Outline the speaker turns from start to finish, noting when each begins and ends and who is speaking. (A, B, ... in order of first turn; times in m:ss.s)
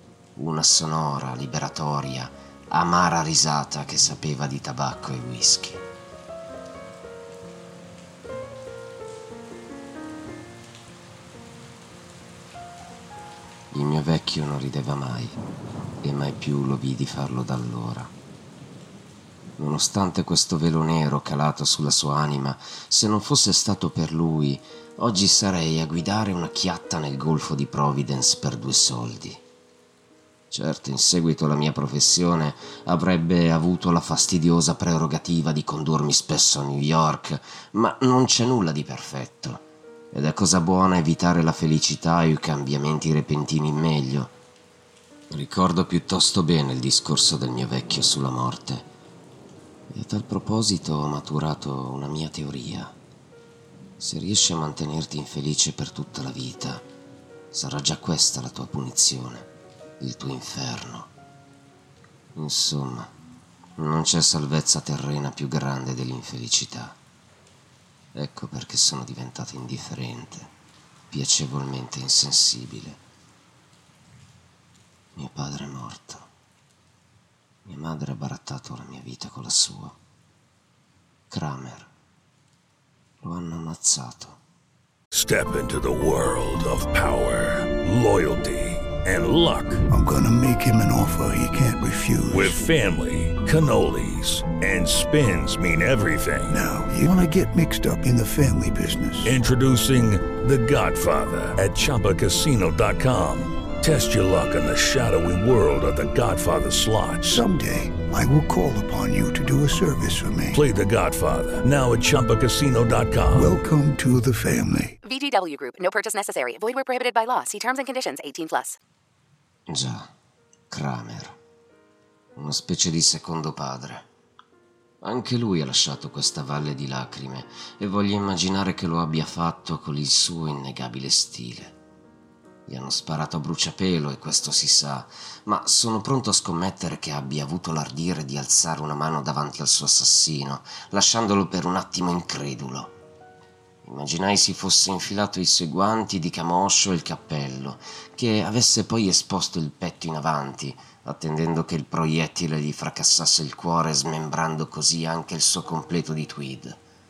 0:00.4-0:05.8 A
0:13.7-0:15.4 A
0:16.0-0:18.1 A
0:19.6-0:29.4 A
0:30.5-0:44.3 A
0:45.3-0:48.9 A
0:49.9-0:53.0 A
0:54.0-0:56.8 A
0:57.5-0:59.5 A
1:00.0-1:01.1 A
1:02.4-1:03.1 A
1:03.8-1:07.0 A
1:08.1-1:10.5 A
1:11.1-1:13.0 A
1:15.1-1:16.3 A
1:17.6-1:20.0 A
1:21.3-1:21.9 A
1:23.2-1:24.4 A
1:25.1-1:29.8 B
1:29.9-1:32.6 C
1:32.3-1:36.6 B
1:36.5-1:39.4 C
1:39.2-1:47.4 B
1:47.2-1:50.6 C
1:50.5-1:53.5 B
1:53.4-1:55.0 C
1:55.0-1:58.8 D
1:59.7-2:00.1 A
2:00.7-2:01.4 A
2:02.4-2:04.0 A
2:05.0-2:11.8 A
2:12.6-2:22.9 A
2:23.8-2:36.8 A